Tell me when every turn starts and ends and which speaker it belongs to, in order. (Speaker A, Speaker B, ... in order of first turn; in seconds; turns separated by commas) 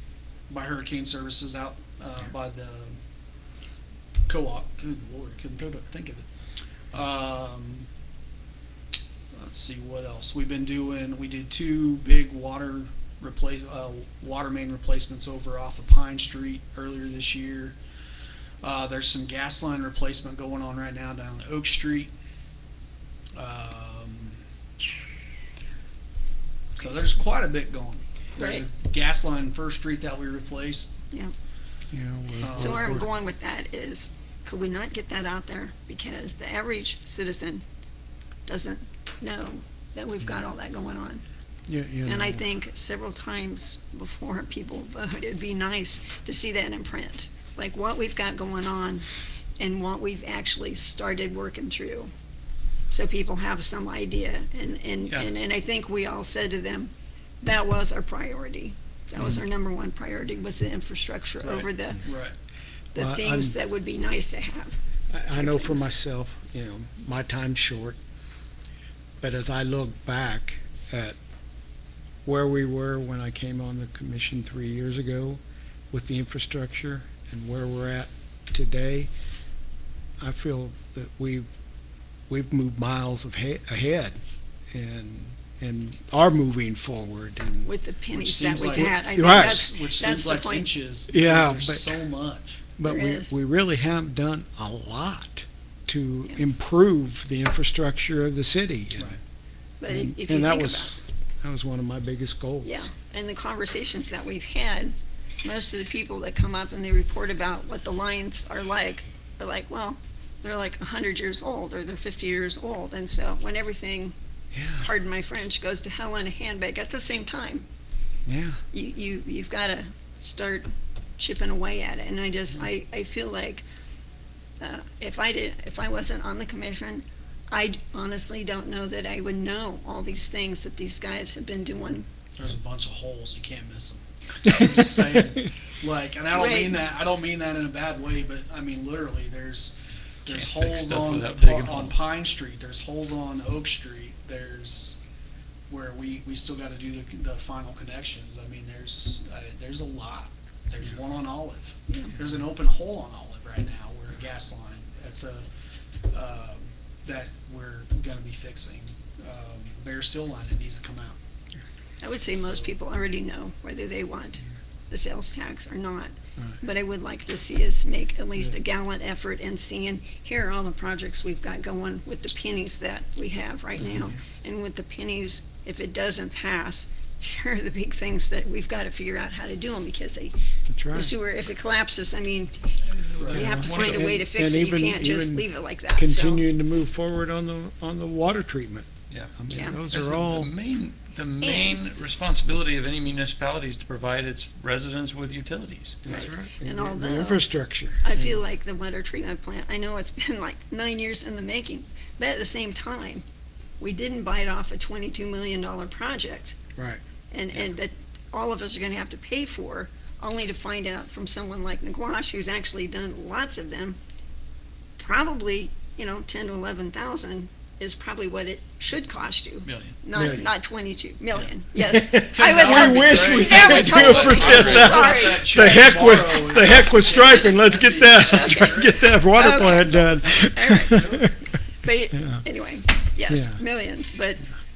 Speaker A: 0.5-3.0, Speaker A: 4.3-6.3, Speaker A: 6.9-7.9, Speaker A: 9.3-17.8, Speaker A: 18.6-22.1, Speaker A: 23.4-24.4, Speaker A: 26.8-30.9, Speaker B: 26.8-27.1, Speaker B: 28.4-28.6, Speaker C: 31.9-33.1, Speaker A: 32.4-33.0, Speaker B: 32.5-37.6, Speaker B: 38.5-41.2, Speaker C: 41.7-42.4, Speaker B: 42.0-49.1, Speaker B: 49.6-52.1, Speaker B: 52.9-62.0, Speaker D: 55.0-55.3, Speaker D: 59.2-59.4, Speaker D: 61.4-61.7, Speaker A: 62.0-62.3, Speaker B: 62.9-64.8, Speaker C: 63.0-63.6, Speaker C: 65.1-68.0, Speaker B: 65.3-65.9, Speaker C: 69.2-71.2, Speaker C: 72.2-79.1, Speaker C: 80.2-81.5, Speaker C: 82.3-84.2, Speaker C: 84.7-87.7, Speaker B: 87.6-90.7, Speaker A: 88.1-92.6, Speaker C: 88.6-89.8, Speaker C: 91.1-91.9, Speaker C: 92.8-99.2, Speaker B: 92.8-93.3, Speaker B: 99.8-101.0, Speaker C: 99.9-102.8, Speaker B: 102.6-114.1, Speaker C: 114.5-114.9, Speaker B: 114.8-117.7, Speaker C: 118.3-118.6, Speaker B: 118.7-123.6, Speaker B: 124.6-132.1, Speaker A: 132.4-145.0, Speaker B: 136.3-136.7, Speaker D: 140.3-142.0, Speaker A: 145.7-155.4, Speaker A: 156.1-161.2, Speaker B: 162.0-180.3, Speaker A: 162.3-162.8, Speaker C: 180.7-181.1, Speaker B: 180.9-186.5, Speaker D: 183.1-184.2, Speaker C: 183.3-190.5, Speaker D: 189.1-189.3, Speaker B: 189.5-189.8, Speaker D: 189.9-196.2, Speaker B: 191.4-191.8, Speaker C: 196.0-198.4, Speaker B: 196.1-197.5, Speaker B: 198.0-203.2, Speaker B: 203.8-206.5, Speaker C: 206.8-207.0, Speaker B: 207.3-214.0, Speaker B: 215.0-225.7, Speaker D: 219.6-220.0, Speaker C: 220.1-220.5, Speaker C: 221.8-231.4, Speaker D: 222.1-225.6, Speaker A: 224.1-231.2, Speaker B: 226.5-234.4, Speaker C: 232.1-232.4, Speaker C: 233.3-233.6